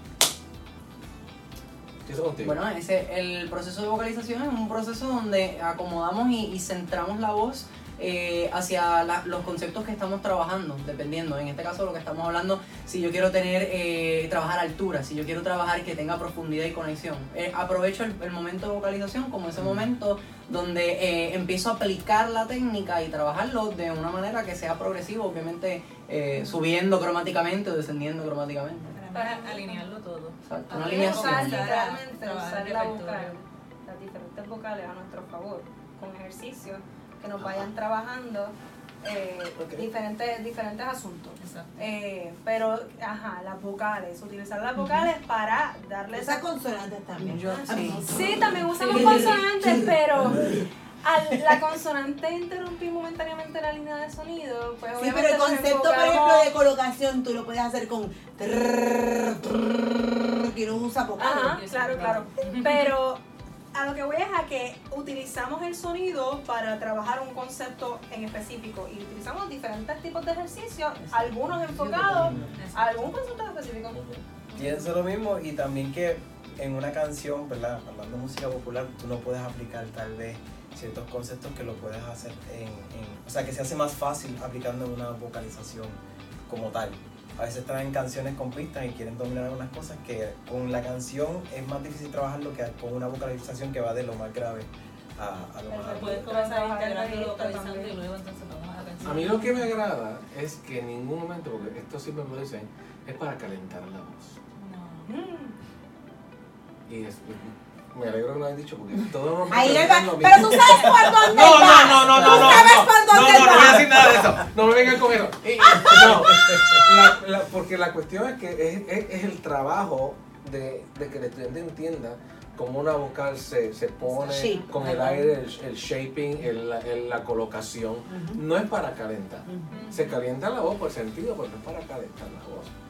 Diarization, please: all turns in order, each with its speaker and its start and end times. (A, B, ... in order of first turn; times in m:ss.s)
0:02.0-0:02.6 A
0:02.4-0:29.0 B
0:19.6-0:19.9 A
0:28.9-0:33.4 C
0:29.1-0:29.9 D
0:30.4-0:31.7 B
0:30.7-0:46.4 D
0:37.4-0:37.7 A
0:41.4-0:41.8 C
0:46.1-0:50.6 E
0:47.2-0:48.2 B
0:47.4-0:49.6 C
0:47.7-0:56.5 D
0:55.0-1:01.6 E
1:01.2-1:03.2 D
1:01.5-1:02.9 C
1:03.7-1:14.0 D
1:11.1-1:13.2 C
1:12.0-1:12.6 F
1:14.5-1:14.9 C
1:14.5-1:36.3 F
1:35.7-1:39.7 C
1:35.7-1:37.9 D
1:39.0-1:44.4 A
1:44.6-1:45.1 C
1:45.1-1:45.5 D
1:46.9-2:12.7 A
1:49.5-1:54.0 E
1:52.0-1:52.5 B
1:55.6-1:56.1 E
1:55.7-1:56.8 F
2:04.0-2:05.0 C
2:04.3-2:04.9 E
2:08.1-2:08.4 E
2:09.5-2:09.8 E
2:09.7-2:10.2 C